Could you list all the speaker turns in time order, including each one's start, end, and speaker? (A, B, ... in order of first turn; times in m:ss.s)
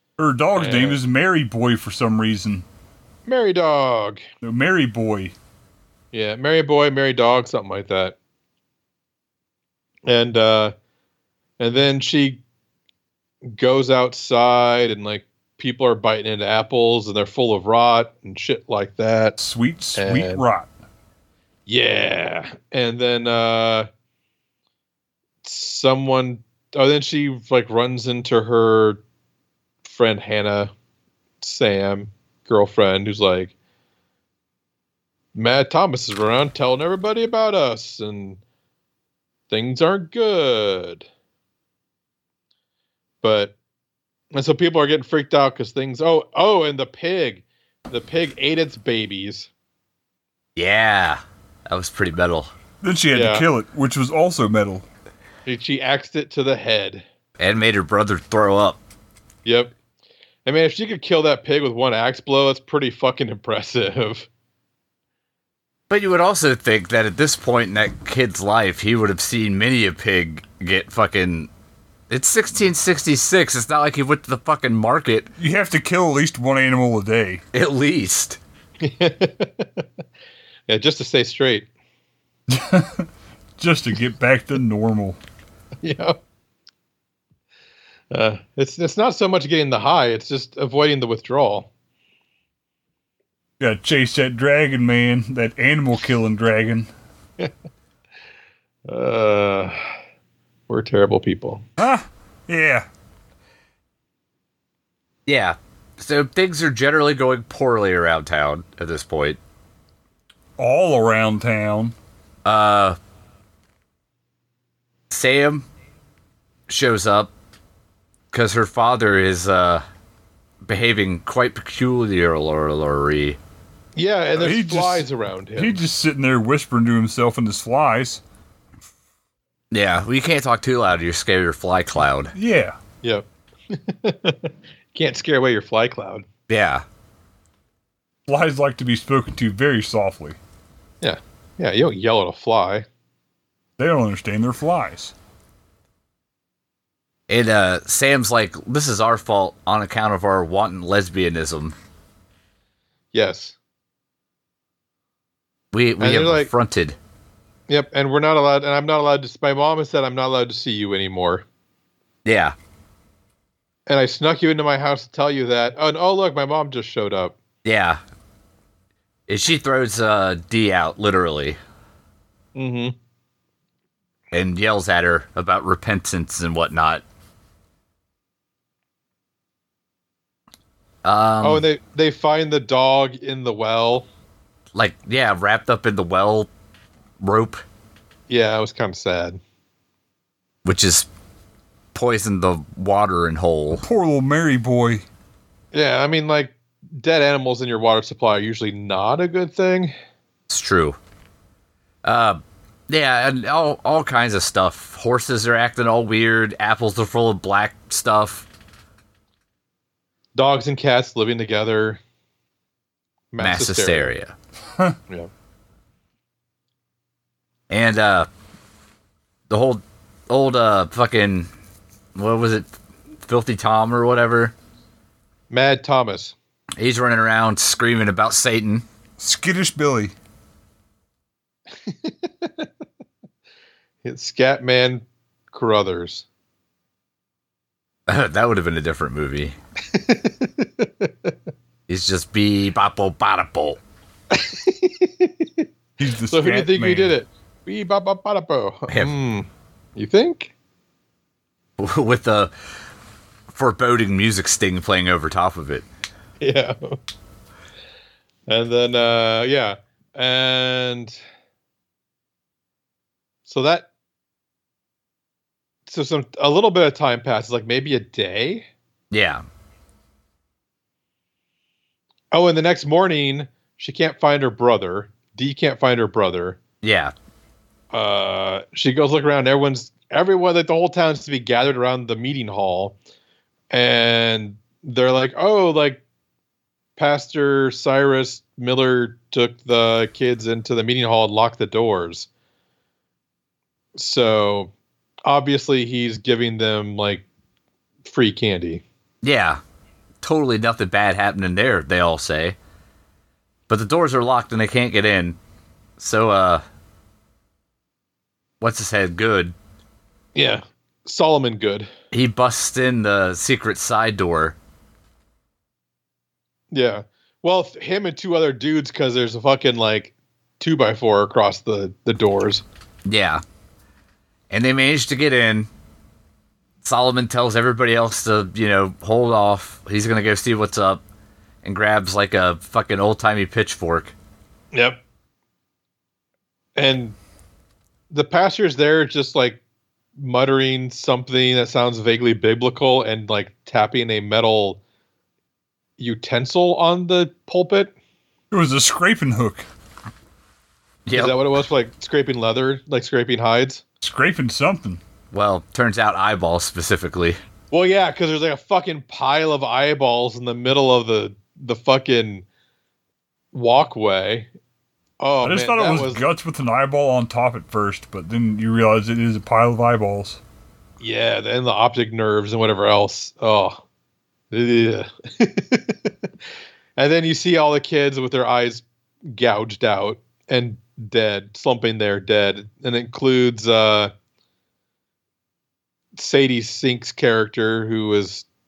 0:00.2-0:02.6 A
0:00.6-0:01.0 B
0:03.3-0:04.2 B
0:04.4-0:05.4 A
0:06.1-0:08.2 B
0:10.1-0:10.7 B
0:11.6-0:12.4 B
0:13.4-0:19.4 B
0:19.4-0:20.7 A
0:20.0-0:20.4 B
0:21.7-0:23.9 B
0:25.4-0:29.0 B
0:29.8-0:30.7 B
0:31.4-0:33.5 B
0:35.4-0:38.4 B
0:39.5-0:41.1 B
0:43.2-0:43.6 B
0:44.3-0:49.5 B
0:50.6-0:52.5 C
0:52.8-0:54.9 A
0:53.1-0:53.5 B
0:55.5-0:57.0 B
0:57.4-0:58.8 C
0:59.4-0:59.7 B
1:00.5-1:04.3 B
1:05.9-1:11.5 C
1:12.1-1:15.3 C
1:15.4-1:17.4 A
1:17.5-1:18.4 C
1:18.8-1:19.8 B
1:20.7-1:21.7 B
1:22.5-1:25.2 A
1:25.8-1:26.2 B
1:28.1-1:31.7 B
1:33.6-1:36.9 A
1:38.9-1:39.9 B
1:40.7-1:41.6 B
1:41.8-1:42.9 A
1:45.3-1:49.4 C
1:50.6-1:52.0 A
1:52.4-1:53.0 C
1:55.1-1:55.7 C
1:56.7-1:57.3 C
1:58.3-1:59.8 C
2:00.6-2:03.4 C
2:04.0-2:05.8 B
2:04.4-2:08.2 A
2:09.7-2:12.3 C
2:12.4-2:12.8 A
2:13.0-2:16.2 B
2:16.5-2:16.8 C
2:18.3-2:20.4 A
2:21.0-2:22.8 B
2:23.8-2:25.1 A
2:27.3-2:31.8 C
2:33.1-2:33.6 B
2:35.7-2:37.0 C
2:36.0-2:36.5 B
2:37.7-2:41.4 B
2:42.2-2:42.6 C
2:43.9-2:47.4 B
2:47.6-2:48.0 C
2:49.3-2:51.6 C
2:52.6-2:53.0 B
2:54.3-2:57.0 C
3:01.0-3:01.6 C
3:01.4-3:04.1 B
3:04.8-3:06.5 C
3:07.2-3:07.6 C
3:08.3-3:09.4 B
3:10.6-3:11.1 C
3:11.9-3:13.8 C
3:13.8-3:15.0 A
3:15.7-3:19.9 B
3:20.5-3:21.0 C
3:22.0-3:28.5 C
3:30.4-3:32.0 B
3:33.3-3:34.1 B
3:33.4-3:34.4 C
3:37.7-3:38.3 C
3:39.5-3:41.5 C
3:42.2-3:42.7 C
3:43.2-3:44.5 C
3:45.5-3:46.4 B
3:46.8-3:48.8 C
3:49.2-3:50.1 A
3:51.9-3:52.7 B
3:54.0-3:56.2 B
3:58.1-3:59.6 C
3:59.9-4:01.3 B
4:01.9-4:03.8 C
4:04.3-4:05.7 B
4:06.0-4:07.1 A
4:06.3-4:10.5 B
4:11.8-4:12.5 C
4:13.5-4:15.8 C
4:16.4-4:17.0 B
4:18.5-4:21.2 B
4:23.5-4:23.9 B
4:25.9-4:28.7 B
4:29.1-4:29.4 C
4:32.3-4:36.6 B
4:36.8-4:37.1 C
4:37.9-4:43.0 B
4:43.7-4:46.0 B
4:47.0-4:52.3 B
4:54.0-4:54.7 B
4:55.2-4:57.2 B
4:58.0-4:58.8 B
4:59.2-4:59.6 C
5:00.2-5:02.6 C
5:03.7-5:05.4 C
5:06.0-5:06.6 C
5:08.6-5:09.6 C
5:10.4-5:11.9 B
5:12.1-5:14.6 C
5:16.7-5:22.6 B
5:23.1-5:23.4 C
5:24.5-5:25.7 C
5:26.8-5:31.0 C
5:31.6-5:34.1 C
5:34.7-5:35.0 B
5:36.8-5:37.2 B
5:38.1-5:39.6 B
5:40.2-5:44.8 B
5:46.0-5:47.9 B
5:48.5-5:49.7 A
5:51.1-5:51.4 C
5:51.1-5:53.8 B
5:54.0-5:55.0 A
5:55.3-5:57.4 C
5:57.7-6:02.4 B
6:03.5-6:04.5 B
6:05.2-6:06.2 B
6:05.4-6:10.4 A
6:11.0-6:13.8 B
6:14.5-6:16.1 B
6:17.0-6:24.1 B
6:26.2-6:28.4 B